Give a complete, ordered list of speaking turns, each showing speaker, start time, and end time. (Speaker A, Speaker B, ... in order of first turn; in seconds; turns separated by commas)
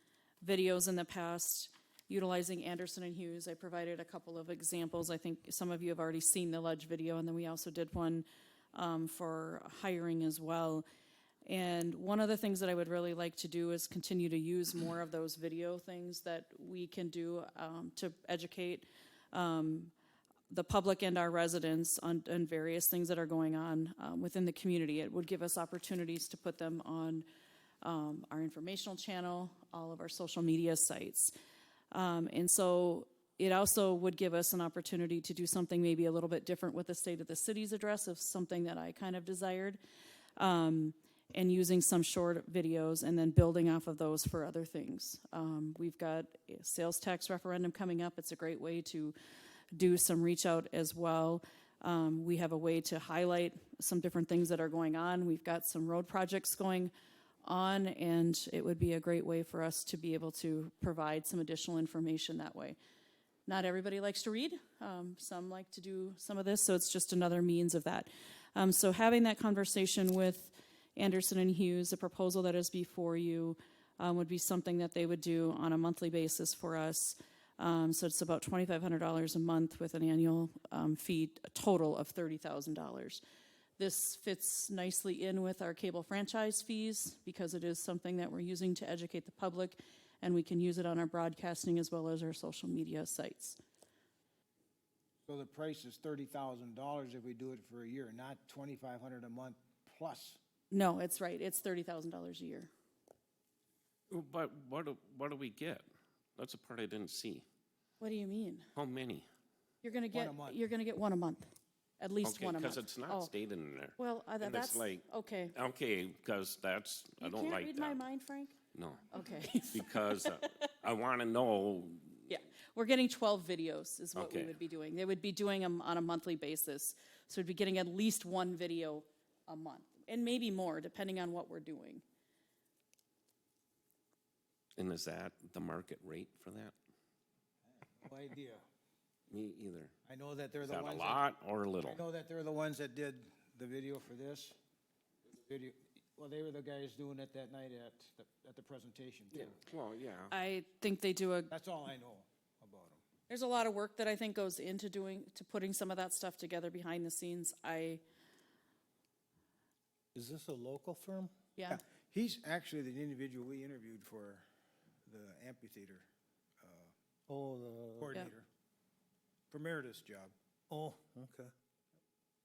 Speaker A: 0.4-10.8, Speaker A: 11.4-19.9, Speaker A: 20.5-27.2, Speaker A: 27.8-31.3, Speaker A: 31.9-39.8, Speaker A: 40.4-49.1, Speaker A: 49.7-56.9, Speaker A: 57.4-62.8, Speaker A: 63.5-83.2, Speaker A: 83.8-93.6, Speaker B: 95.2-100.4, Speaker A: 100.7-102.7, Speaker C: 104.1-105.8, Speaker C: 106.4-107.4, Speaker A: 108.0-108.7, Speaker C: 108.7-109.3, Speaker A: 109.8-111.4, Speaker B: 110.1-110.6, Speaker A: 112.0-113.3, Speaker C: 112.2-118.0, Speaker A: 114.0-115.5, Speaker A: 117.2-118.5, Speaker C: 118.7-122.2, Speaker A: 119.1-120.5, Speaker A: 122.3-132.0, Speaker C: 124.2-124.5, Speaker C: 134.8-136.7, Speaker B: 137.8-138.6, Speaker C: 139.3-139.9, Speaker B: 140.1-141.2, Speaker C: 140.6-142.0, Speaker B: 141.8-144.6, Speaker B: 145.3-149.6, Speaker C: 149.3-150.3, Speaker A: 150.3-151.5, Speaker B: 151.5-153.0, Speaker A: 153.3-158.0, Speaker D: 160.1-161.3, Speaker A: 161.6-161.8, Speaker B: 161.7-164.4, Speaker B: 165.1-166.0, Speaker B: 166.6-166.9, Speaker D: 167.3-168.3, Speaker B: 168.0-168.5, Speaker B: 169.5-170.3, Speaker D: 170.7-171.5